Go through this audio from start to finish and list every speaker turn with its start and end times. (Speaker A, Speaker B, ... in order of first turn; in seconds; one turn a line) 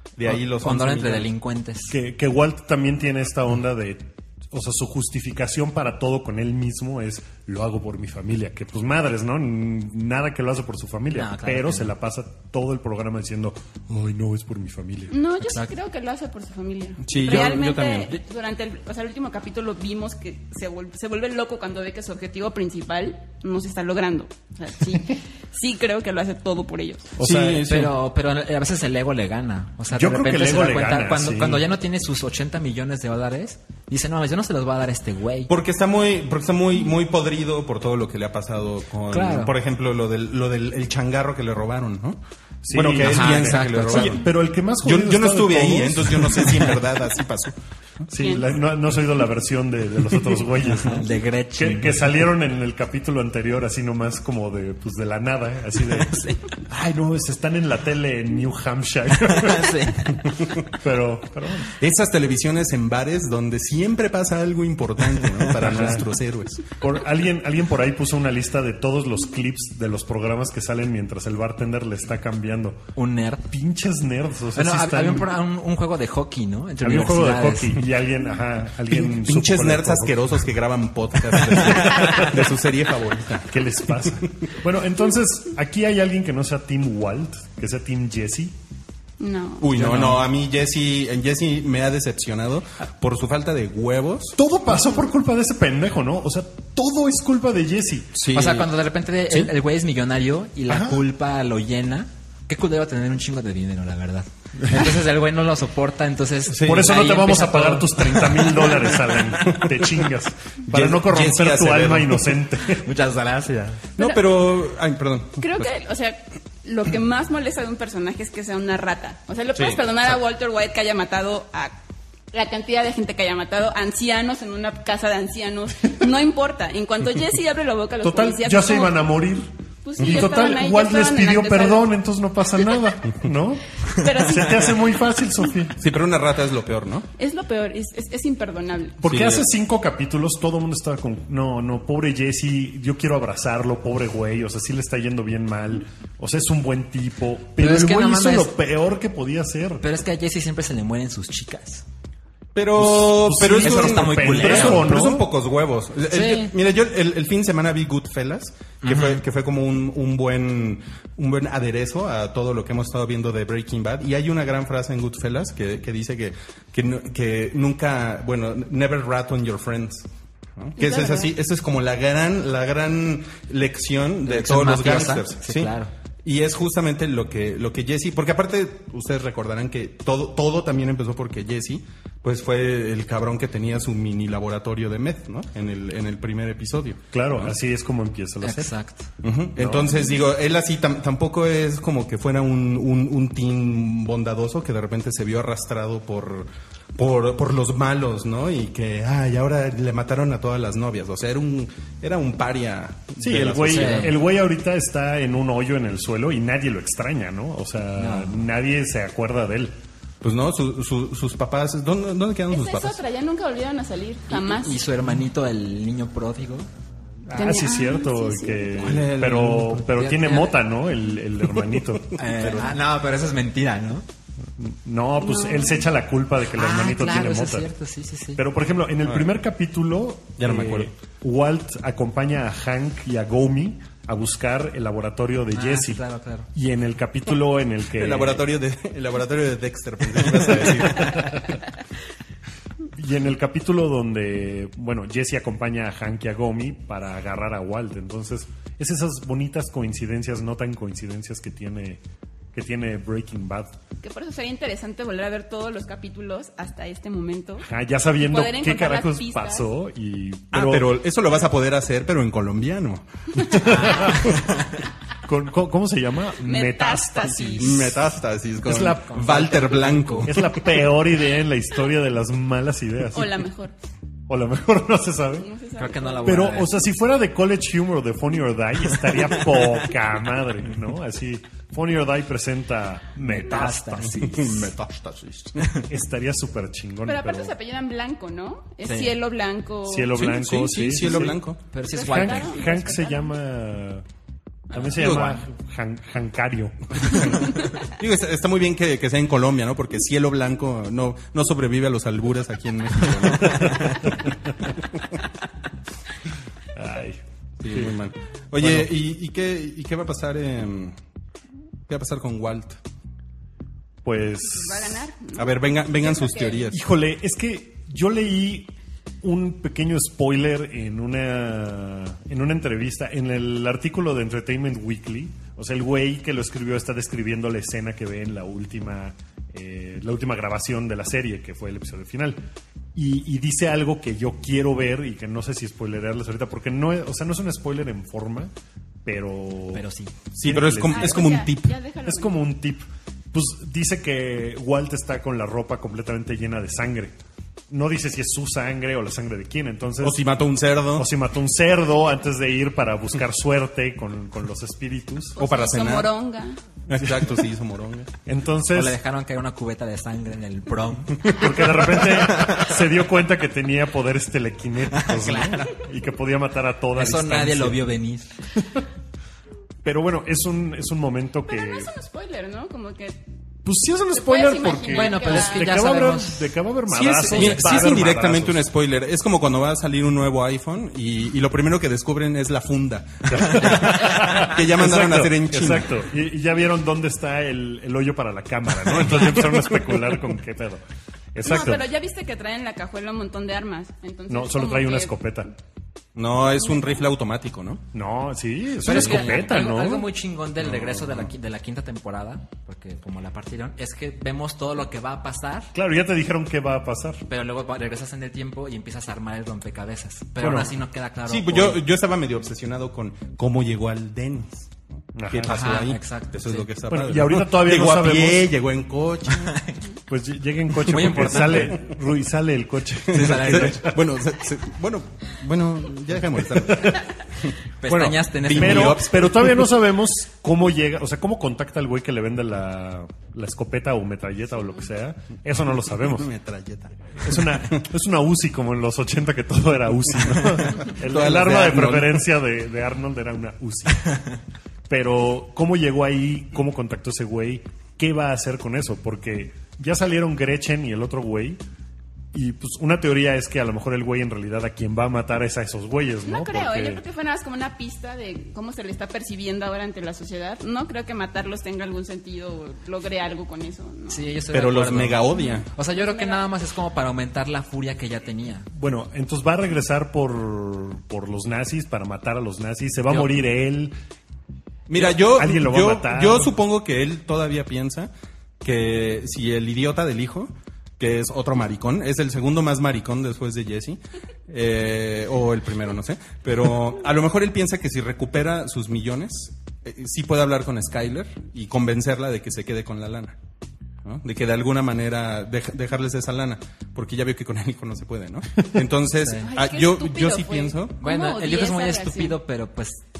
Speaker A: 0.2-1.3
Speaker B: 0.3-2.0
Speaker C: 1.9-15.2
Speaker B: 11.1-11.9
Speaker D: 15.1-27.1
Speaker B: 15.4-15.7
Speaker A: 17.0-18.2
Speaker C: 27.2-27.7
Speaker A: 27.2-27.9
Speaker B: 27.6-35.5
Speaker C: 29.9-31.6
Speaker A: 35.5-42.2
Speaker B: 39.1-39.5
Speaker C: 42.6-46.8
Speaker A: 42.7-44.3
Speaker B: 43.0-44.2
Speaker A: 44.8-47.5
Speaker C: 48.1-61.7
Speaker D: 48.2-48.5
Speaker B: 50.6-52.2
Speaker B: 56.1-56.4
Speaker B: 59.3-60.2
Speaker A: 61.7-66.7
Speaker C: 65.5-66.1
Speaker C: 66.7-72.9
Speaker B: 72.9-73.5
Speaker C: 73.5-75.4
Speaker B: 74.5-77.8
Speaker C: 76.8-80.4
Speaker A: 78.9-83.6
Speaker C: 81.4-82.5
Speaker C: 83.4-88.5
Speaker D: 89.2-89.7
Speaker A: 89.6-94.3
Speaker B: 89.7-90.2
Speaker C: 94.3-98.2
Speaker A: 98.2-98.7
Speaker B: 98.3-109.6
Speaker C: 100.7-101.0
Speaker C: 106.5-112.8
Speaker A: 110.7-112.4
Speaker B: 112.7-113.9
Speaker A: 114.0-115.7
Speaker D: 115.4-121.8
Speaker A: 119.5-119.8
Speaker D: 122.3-129.0
Speaker C: 128.0-129.5
Speaker D: 129.8-131.9
Speaker A: 130.0-130.2
Speaker C: 130.0-135.7
Speaker D: 133.9-135.0
Speaker A: 135.8-137.1
Speaker D: 137.2-139.0
Speaker C: 139.0-149.8
Speaker A: 139.0-139.4
Speaker B: 147.6-148.6
Speaker B: 149.8-151.8
Speaker A: 152.5-187.5
Speaker C: 152.7-155.3
Speaker B: 153.6-154.9
Speaker B: 156.1-156.5
Speaker B: 158.8-159.2
Speaker D: 170.8-171.3
Speaker B: 174.2-175.9
Speaker C: 187.1-188.7
Speaker B: 188.4-189.1
Speaker A: 189.2-204.1
Speaker C: 189.6-190.1
Speaker C: 203.2-209.7
Speaker B: 203.6-204.2
Speaker B: 208.0-208.5
Speaker A: 210.2-213.0
Speaker D: 212.5-214.8
Speaker B: 214.3-216.7
Speaker C: 217.2-222.6
Speaker D: 217.3-218.8
Speaker A: 218.8-219.8
Speaker B: 219.0-220.6
Speaker B: 222.2-224.0
Speaker A: 222.4-222.7
Speaker C: 224.6-227.7
Speaker D: 225.2-225.9
Speaker B: 226.5-228.4
Speaker C: 228.3-238.4
Speaker A: 230.4-230.9
Speaker B: 235.5-236.5
Speaker A: 237.9-241.5
Speaker C: 240.3-241.4
Speaker C: 242.9-252.0
Speaker C: 252.5-253.7
Speaker D: 254.0-257.7
Speaker C: 257.6-261.0
Speaker D: 258.2-259.7
Speaker A: 260.5-263.7
Speaker C: 263.5-264.5
Speaker B: 263.6-264.8
Speaker C: 265.2-268.0
Speaker D: 266.4-267.9
Speaker A: 267.6-270.5
Speaker C: 268.6-273.4
Speaker B: 269.0-270.3
Speaker D: 273.1-273.7
Speaker C: 274.3-275.5
Speaker D: 275.4-276.6
Speaker B: 275.8-276.8
Speaker C: 276.2-284.4
Speaker B: 283.1-284.7
Speaker A: 284.2-285.7
Speaker C: 285.8-287.5
Speaker D: 287.0-290.3
Speaker B: 288.8-289.2
Speaker C: 289.9-291.4
Speaker A: 290.1-291.6
Speaker B: 291.7-292.9
Speaker D: 291.9-293.2
Speaker C: 291.9-294.0
Speaker C: 294.7-297.4
Speaker B: 294.7-295.3
Speaker A: 294.9-295.4
Speaker A: 297.0-304.3
Speaker C: 303.3-304.3
Speaker C: 306.7-308.0
Speaker A: 307.6-311.0
Speaker C: 308.6-308.9
Speaker A: 311.9-312.8
Speaker C: 314.0-315.1
Speaker D: 314.5-316.7
Speaker A: 315.3-316.8
Speaker C: 316.7-318.7
Speaker C: 319.2-332.4
Speaker C: 332.9-338.5
Speaker C: 339.0-339.8
Speaker B: 339.7-340.2
Speaker A: 340.3-341.7
Speaker C: 340.4-341.4
Speaker D: 340.9-342.5
Speaker C: 342.0-347.1
Speaker C: 347.7-350.2
Speaker A: 350.0-351.1
Speaker C: 350.9-355.4
Speaker D: 355.4-356.6
Speaker A: 355.4-356.1
Speaker A: 356.9-358.1
Speaker C: 356.9-357.3
Speaker C: 358.2-359.0
Speaker B: 358.7-362.7
Speaker C: 361.2-367.9
Speaker B: 364.9-365.7
Speaker B: 366.9-368.3
Speaker C: 369.8-371.9
Speaker D: 371.5-373.2
Speaker C: 373.6-378.6
Speaker D: 374.1-375.8
Speaker B: 374.9-376.5
Speaker A: 376.9-386.0
Speaker B: 377.1-377.9
Speaker C: 383.2-390.8
Speaker C: 391.3-391.9
Speaker D: 391.4-395.4
Speaker C: 394.3-395.5
Speaker A: 396.1-397.8
Speaker C: 397.9-400.1
Speaker B: 398.8-405.7
Speaker A: 398.9-399.4
Speaker C: 400.7-401.2
Speaker C: 405.7-407.2
Speaker B: 407.3-411.8
Speaker C: 410.4-410.8
Speaker A: 411.2-414.8
Speaker C: 415.1-415.8
Speaker A: 415.3-419.6
Speaker B: 415.4-416.7
Speaker C: 416.9-418.6
Speaker B: 419.4-419.8
Speaker C: 420.1-424.1
Speaker B: 420.8-421.8
Speaker A: 421.0-421.6
Speaker A: 423.1-427.5
Speaker B: 423.1-423.9
Speaker C: 426.4-427.0
Speaker B: 427.8-429.1
Speaker C: 427.9-436.3
Speaker A: 428.4-429.7
Speaker A: 436.0-437.8
Speaker C: 437.1-444.4
Speaker A: 440.5-442.2
Speaker C: 444.9-451.6
Speaker C: 452.3-457.0
Speaker D: 456.2-464.3
Speaker B: 464.1-468.7
Speaker A: 464.5-465.7
Speaker D: 465.3-466.4
Speaker C: 468.7-473.9
Speaker B: 473.1-473.3
Speaker A: 474.9-493.4
Speaker C: 474.9-476.6
Speaker A: 494.0-500.9
Speaker B: 499.2-499.5
Speaker D: 499.4-502.4
Speaker B: 501.0-503.0